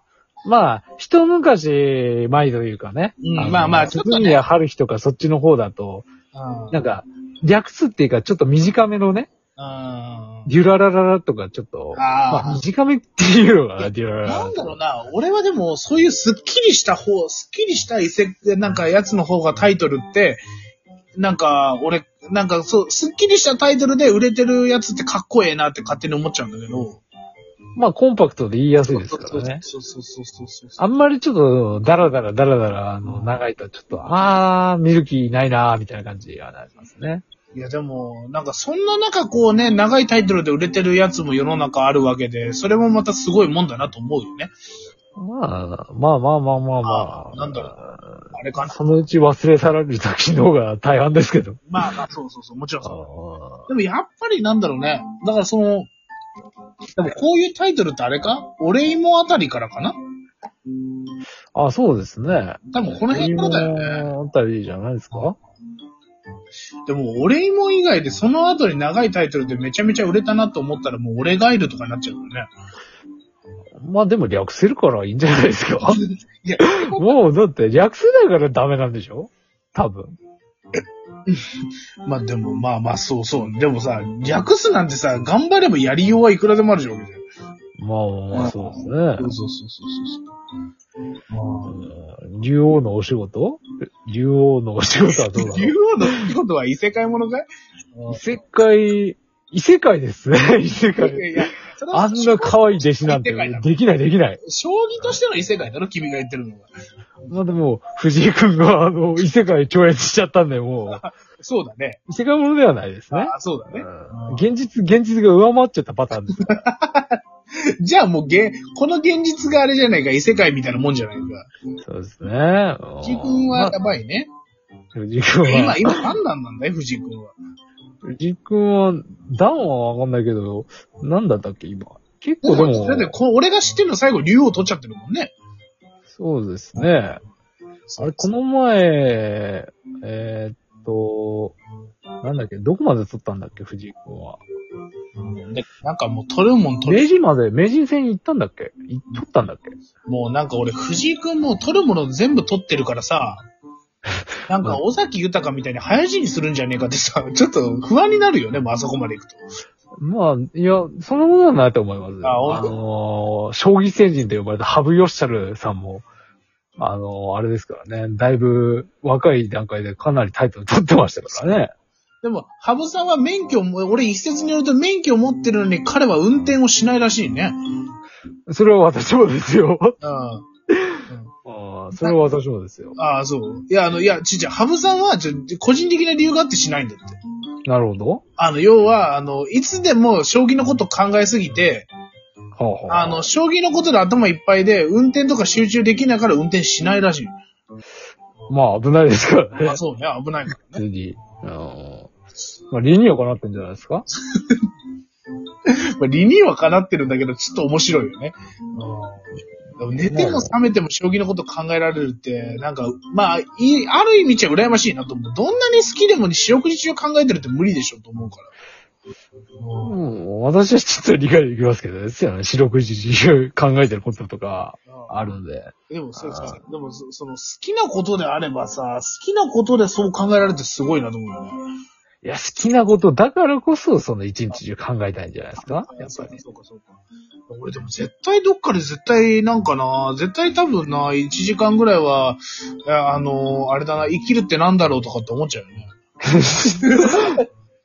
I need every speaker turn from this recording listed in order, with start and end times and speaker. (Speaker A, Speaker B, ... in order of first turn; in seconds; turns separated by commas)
Speaker A: 0.4-6.1, Speaker B: 3.2-4.4, Speaker B: 6.3-6.8, Speaker A: 6.7-9.3, Speaker B: 9.6-10.5, Speaker A: 10.4-14.8, Speaker B: 11.9-12.6, Speaker B: 14.2-20.4, Speaker B: 21.2-27.0, Speaker A: 27.8-29.6, Speaker B: 28.8-30.8, Speaker A: 30.8-37.2, Speaker B: 37.5-44.5, Speaker A: 45.2-51.6, Speaker B: 46.8-47.7, Speaker B: 48.3-48.9, Speaker B: 51.7-52.9, Speaker A: 52.8-53.7, Speaker B: 53.7-55.9, Speaker B: 56.9-60.0, Speaker A: 61.5-65.4, Speaker B: 62.7-64.1, Speaker B: 66.8-72.5, Speaker A: 73.8-76.0, Speaker B: 75.8-77.1, Speaker A: 76.6-80.1, Speaker B: 82.0-87.2, Speaker A: 87.8-89.3, Speaker B: 88.3-90.2, Speaker B: 91.3-91.7, Speaker A: 91.7-96.2, Speaker B: 95.1-98.2, Speaker A: 98.1-104.4, Speaker B: 101.0-103.7, Speaker B: 104.4-106.7, Speaker A: 107.3-111.0, Speaker B: 110.9-112.0, Speaker A: 112.1-116.6, Speaker B: 113.1-114.5, Speaker B: 116.4-117.2, Speaker B: 117.8-121.8, Speaker A: 121.8-123.7, Speaker B: 123.0-124.3, Speaker A: 124.9-126.0, Speaker B: 125.4-127.3, Speaker A: 128.1-133.1, Speaker B: 132.4-135.3, Speaker A: 136.1-137.2, Speaker B: 137.9-138.3, Speaker A: 138.0-141.6, Speaker A: 142.2-144.4, Speaker B: 145.2-147.1, Speaker A: 146.8-149.8, Speaker B: 150.1-153.4, Speaker B: 154.5-159.4, Speaker A: 160.0-166.0, Speaker B: 162.2-162.8, Speaker A: 166.8-171.7, Speaker B: 171.3-171.6, Speaker B: 172.2-177.6, Speaker A: 178.5-179.9, Speaker B: 180.0-180.5, Speaker A: 180.7-182.9, Speaker B: 182.9-187.2, Speaker A: 187.7-188.2, Speaker B: 188.4-191.9, Speaker A: 192.6-193.3, Speaker B: 192.9-197.3, Speaker A: 198.5-199.8, Speaker B: 199.6-200.8, Speaker A: 200.7-202.1, Speaker A: 202.7-204.1, Speaker B: 205.7-209.3, Speaker B: 209.8-218.5, Speaker A: 210.1-210.5, Speaker B: 219.6-220.0, Speaker A: 219.8-226.6, Speaker B: 224.9-225.3, Speaker B: 225.9-231.6, Speaker A: 232.2-236.4, Speaker B: 235.6-245.9, Speaker A: 246.2-247.2, Speaker B: 246.8-247.4